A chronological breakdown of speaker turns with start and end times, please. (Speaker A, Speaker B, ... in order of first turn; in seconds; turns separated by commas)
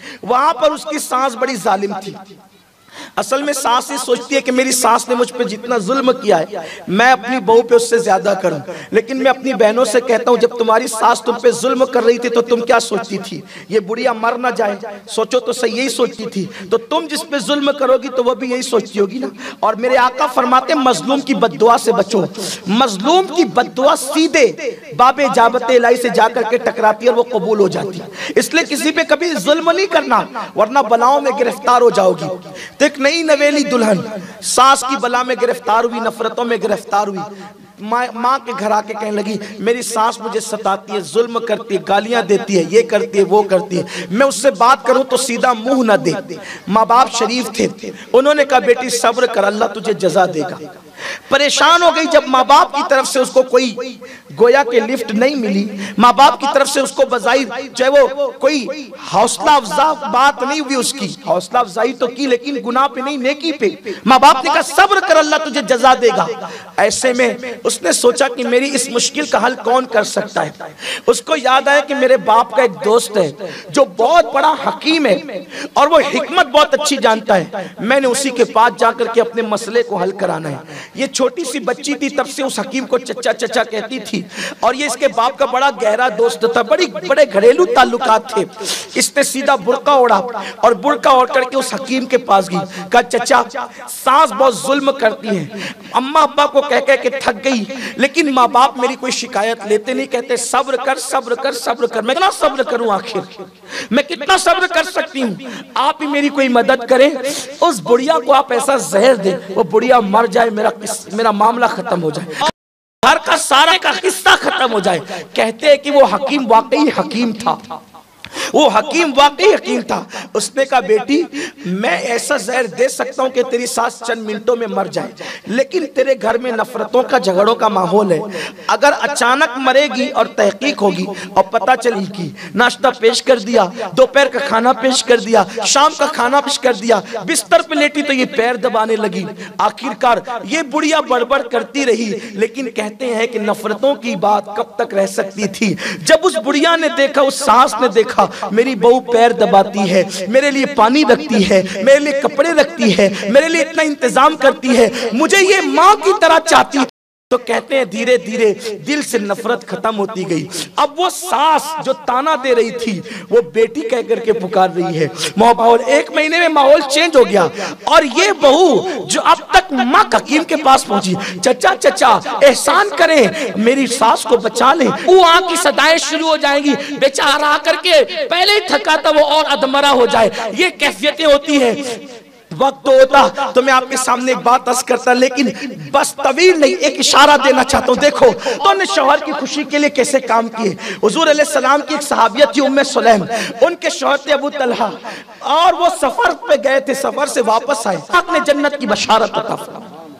Speaker A: 0.2-2.2, Speaker A: 3.2-50.6, Speaker A: 51.3-112.5, Speaker A: 113.0-117.8, Speaker A: 118.5-182.0, Speaker A: 182.5-199.9